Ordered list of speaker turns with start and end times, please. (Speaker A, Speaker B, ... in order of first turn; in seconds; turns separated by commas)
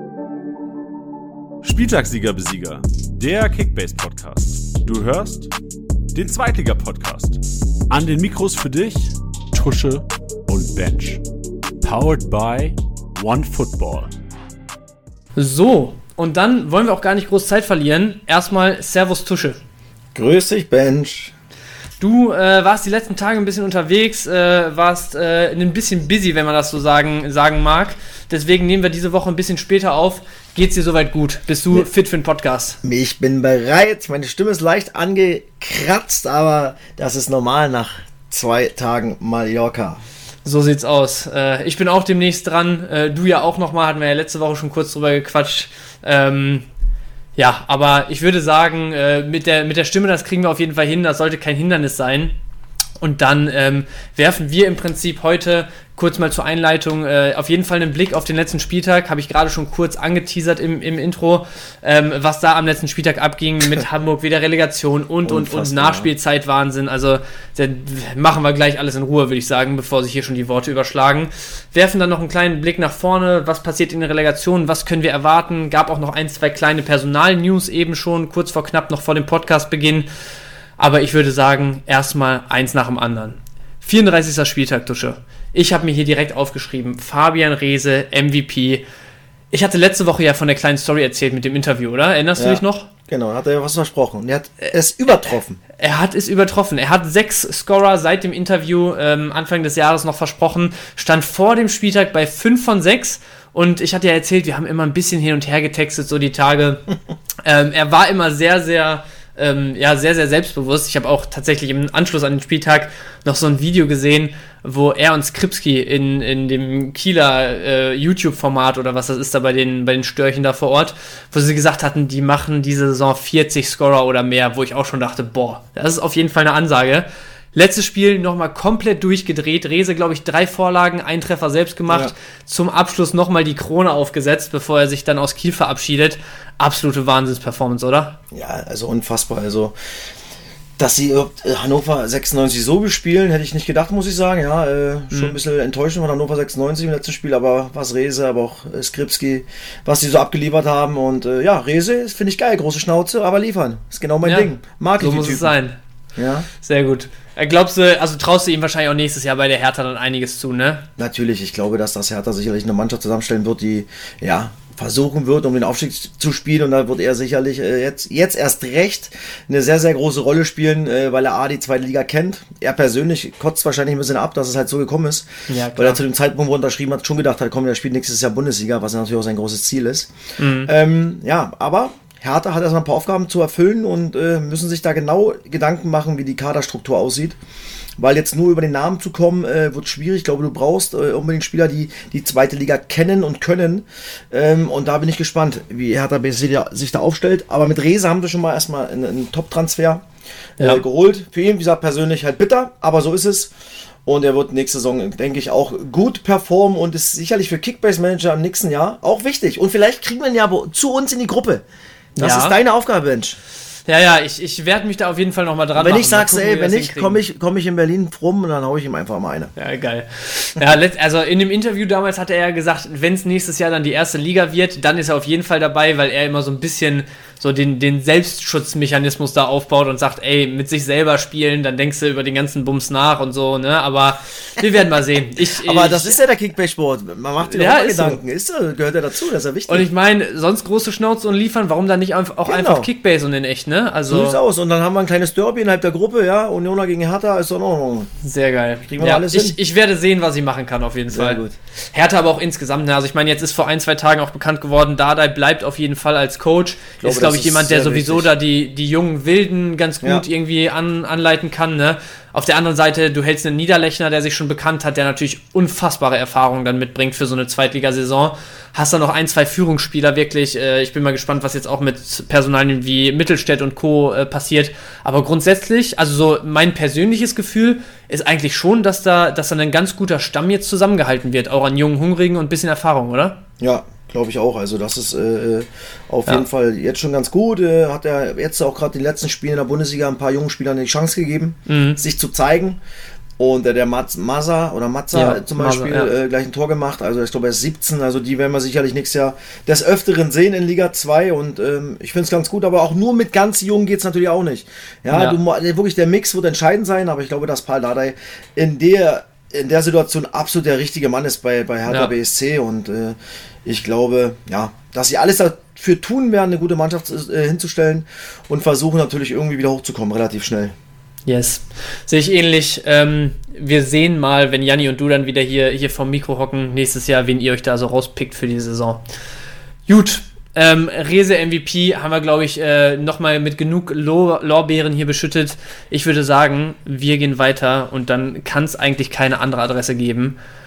Speaker A: 1.6-5.5, Speaker A: 6.1-7.4, Speaker A: 7.9-11.2, Speaker A: 11.8-14.1, Speaker B: 15.4-19.6, Speaker C: 20.1-21.3, Speaker B: 22.0-32.8, Speaker C: 32.8-40.0, Speaker B: 40.4-46.6, Speaker B: 47.4-52.3, Speaker B: 53.0-80.1, Speaker C: 65.2-66.1, Speaker B: 80.8-88.8, Speaker B: 89.5-92.9, Speaker C: 92.4-95.6, Speaker B: 94.6-106.8, Speaker B: 107.4-138.2, Speaker C: 131.9-132.1, Speaker C: 138.3-139.8, Speaker C: 140.8-155.5, Speaker B: 145.1-145.3, Speaker B: 154.2-155.7, Speaker C: 156.2-156.5, Speaker B: 156.6-160.8, Speaker C: 161.0-180.1, Speaker B: 175.5-176.0, Speaker B: 180.4-180.7, Speaker C: 180.6-187.4, Speaker C: 188.0-200.0, Speaker C: 200.6-203.5, Speaker C: 204.0-211.6, Speaker B: 212.2-212.6, Speaker C: 212.2-213.4, Speaker B: 213.9-217.2, Speaker C: 215.7-219.5, Speaker B: 219.6-236.2, Speaker C: 235.6-239.9, Speaker B: 237.4-238.2, Speaker B: 239.7-244.4, Speaker C: 242.4-242.9, Speaker C: 244.1-248.1, Speaker B: 248.2-251.4, Speaker C: 248.9-249.6, Speaker C: 251.1-251.6, Speaker B: 251.9-283.4, Speaker C: 257.0-258.3, Speaker C: 283.6-292.8, Speaker B: 291.7-292.0, Speaker C: 293.4-320.7, Speaker B: 295.1-296.1, Speaker B: 305.1-305.4, Speaker B: 311.9-312.1, Speaker B: 321.2-329.0, Speaker B: 329.9-340.4